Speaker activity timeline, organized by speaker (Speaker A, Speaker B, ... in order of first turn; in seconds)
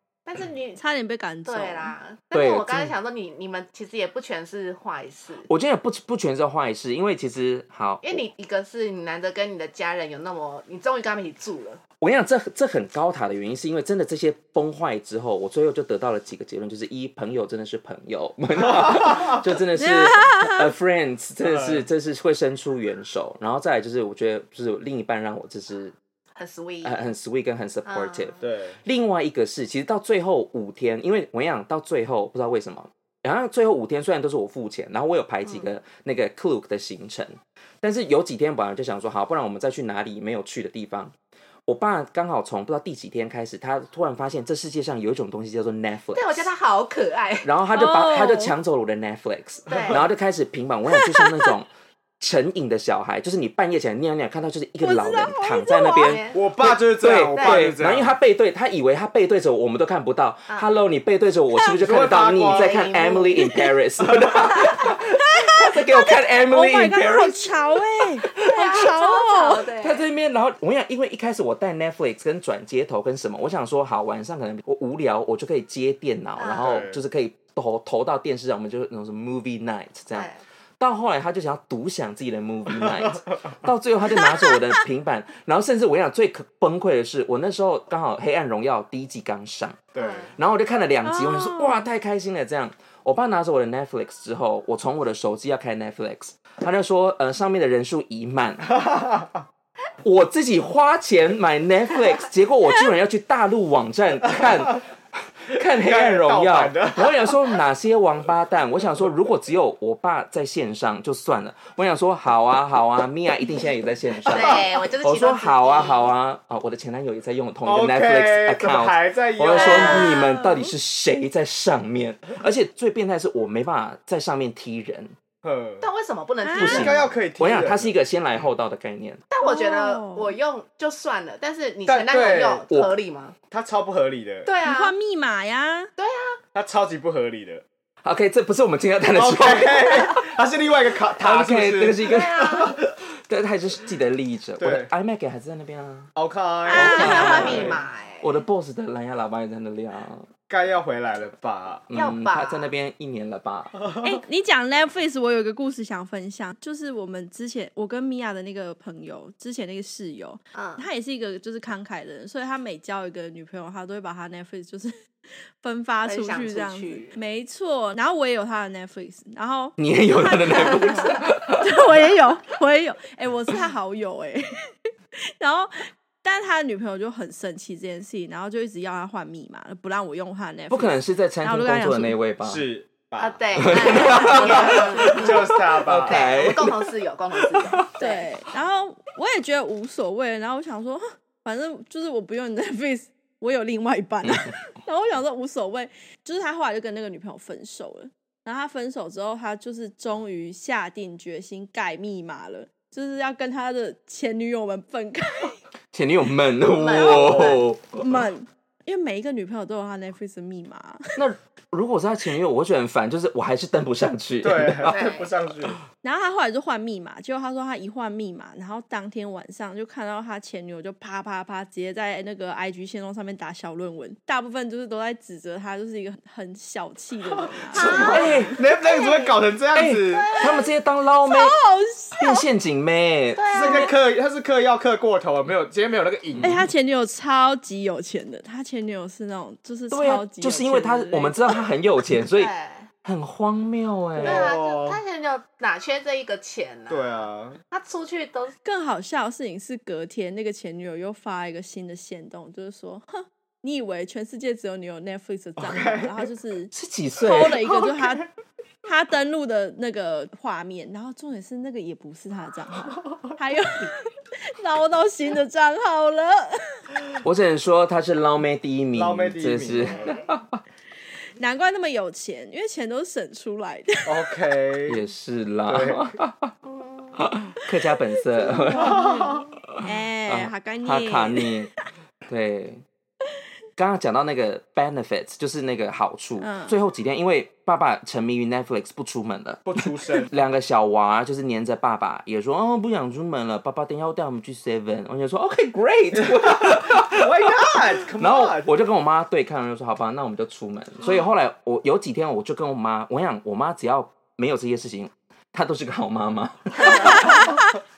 Speaker A: 0.2-0.8, 1.4-5.5, 8.0-11.8, 26.4-27.1, 27.8-28.4, 46.1-47.5, 49.7-50.1, 56.0-56.4, 57.3-57.7, 60.5-60.8, 62.4-63.6, 68.4-70.1, 76.4-76.7, 80.1-80.4, 90.0-90.3, 114.2-116.1, 119.5-120.2, 125.8-127.1, 129.3-133.3, 134.4-134.9, 136.0-136.4, 142.0-142.8, 146.7-148.4, 151.9-152.7, 160.5-160.9, 166.1-167.2, 183.2-188.3, 206.6-207.6, 214.8-215.3, 227.7-229.4, 230.1-230.7, 233.3-233.9, 242.3-242.9, 244.2-248.5, 276.6-277.2, 306.7-307.7
Speaker B: 0.8-1.9, 19.8-20.7, 47.7-48.5, 51.0-51.5, 54.8-56.2, 66.4-69.7, 84.2-84.5, 91.0-91.9, 119.8-120.7, 126.4-126.9, 129.4-130.3, 134.6-135.9, 146.7-147.6, 154.0-164.9, 165.6-174.4, 175.4-182.2, 183.9-184.4, 188.0-205.6, 207.0-211.1, 216.0-228.6, 231.2-232.4, 236.4-241.6, 248.6-258.3, 258.8-266.8, 271.4-274.1, 278.4-281.8, 286.4-286.8
Speaker C: 2.3-2.9, 5.4-8.2, 12.0-25.9, 26.8-41.1, 41.6-46.5, 47.4-51.7, 52.2-67.5, 68.2-68.5, 69.8-89.8, 90.3-98.8, 100.0-125.2, 126.6-129.2, 138.0-140.3, 141.2-146.1, 146.7-150.3, 151.9-153.8, 169.8-171.8, 180.7-182.7, 183.6-186.9, 205.9-208.2, 211.2-215.1, 227.8-228.6, 229.7-231.6, 232.2-233.9, 236.3-236.6, 239.9-242.5, 243.0-244.5, 256.7-257.6, 267.2-270.6, 274.9-276.6, 277.1-281.7, 282.3-282.8, 283.8-307.5
Speaker D: 21.4-21.9, 28.4-28.8, 56.3-58.1, 61.7-62.8, 76.5-77.0, 82.7-83.2, 89.9-90.3, 98.8-99.4, 105.7-107.3, 117.6-120.1, 125.4-125.8, 126.6-127.9, 131.9-132.7, 133.5-134.5, 136.5-137.6, 139.1-142.8, 144.6-144.9, 146.2-147.8, 150.5-151.9, 182.4-186.4, 214.4-215.8, 227.4-230.4, 233.5-236.6, 244.1-245.0, 246.9-247.6, 255.6-256.3, 257.3-258.2, 268.9-270.2, 274.0-275.0, 275.7-276.1, 278.9-279.3, 289.6-290.3, 296.2-298.7